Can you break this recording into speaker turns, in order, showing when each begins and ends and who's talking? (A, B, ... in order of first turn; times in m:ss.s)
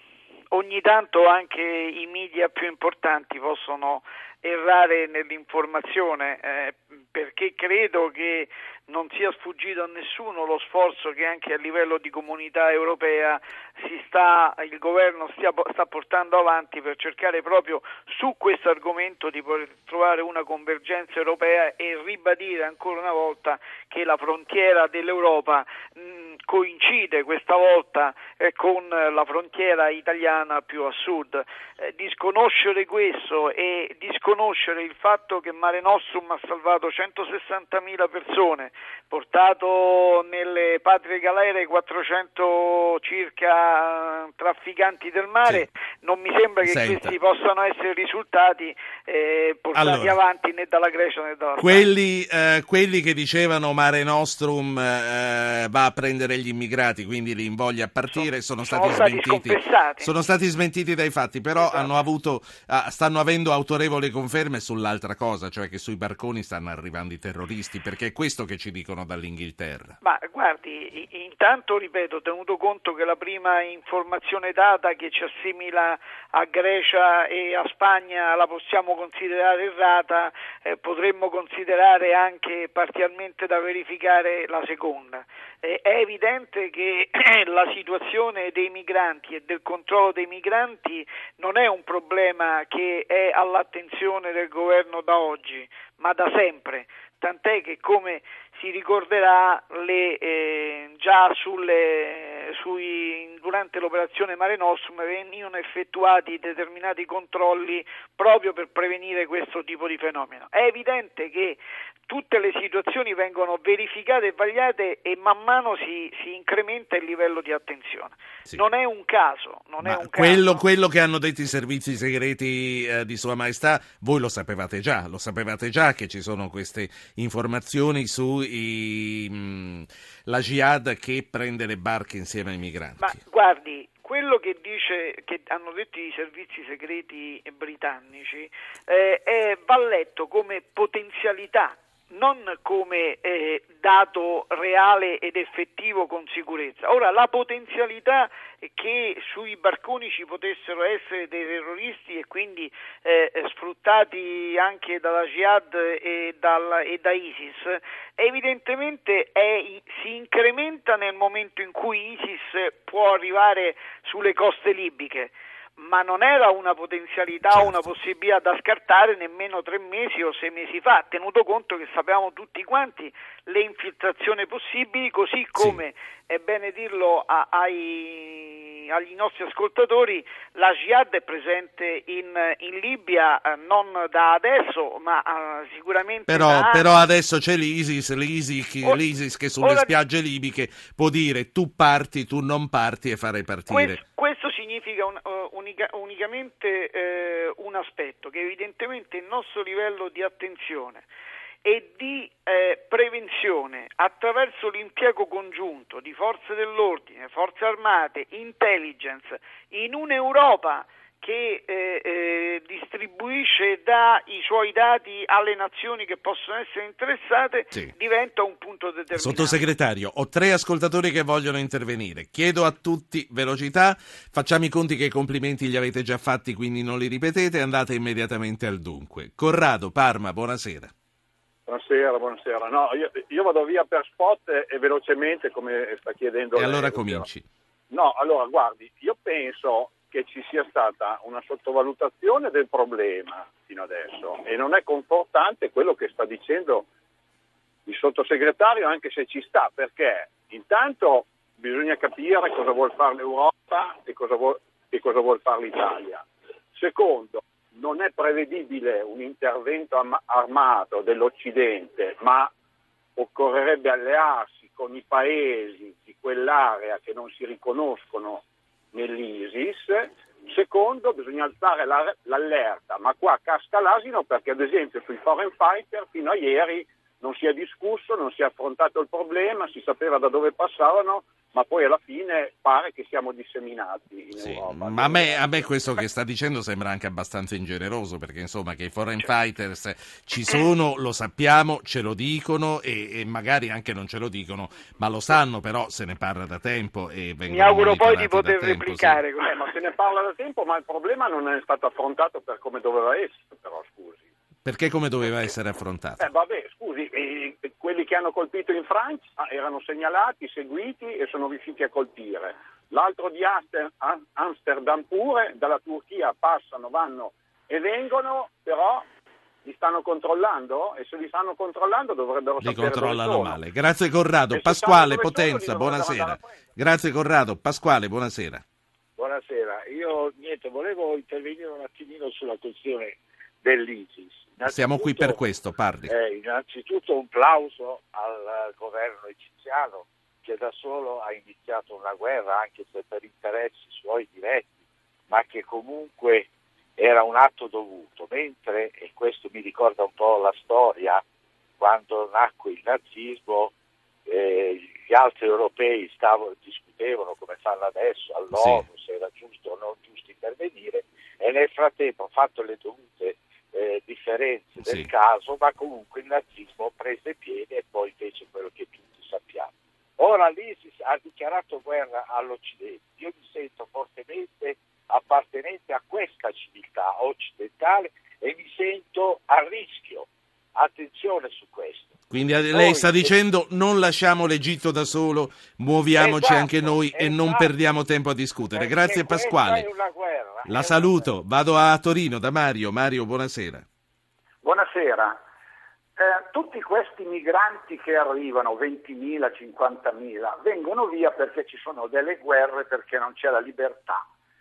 0:00.5-0:51.9 A
0:46.6-0:47.2 B
0:49.7-0:50.2 B
0:51.6-1:10.0 B
0:58.1-1:00.1 A
1:01.6-1:01.9 A
1:10.0-2:00.6 A
1:59.8-2:13.2 B
2:13.0-3:06.9 A
2:55.6-2:55.8 B
3:06.3-3:14.0 B
3:09.6-3:10.0 A
3:13.7-3:21.0 A
3:21.6-3:39.7 A
3:39.2-3:50.9 B
3:51.7-3:57.3 C
3:56.6-3:57.5 B
3:57.9-4:06.9 C
4:07.9-4:16.2 C
4:16.8-4:22.5 C
4:23.2-4:45.8 C
4:44.4-4:59.2 B
4:57.5-4:59.8 A
4:59.4-5:04.2 C
5:04.6-5:06.2 B
5:06.2-5:19.0 C
5:19.6-5:23.6 C
5:22.6-5:28.6 B
5:24.5-5:26.5 C
5:29.2-5:35.4 D
5:34.6-5:36.1 B
5:36.1-5:44.7 D
5:45.3-5:51.2 D
5:51.8-5:53.7 D
5:54.3-6:22.1 D
5:58.6-5:58.8 B
6:04.8-6:05.1 B
6:22.3-6:29.9 B
6:22.7-6:23.4 D
6:26.2-6:27.7 D
6:28.7-6:31.3 D
6:30.6-6:33.9 B
6:34.6-6:35.4 E
6:36.2-6:44.2 E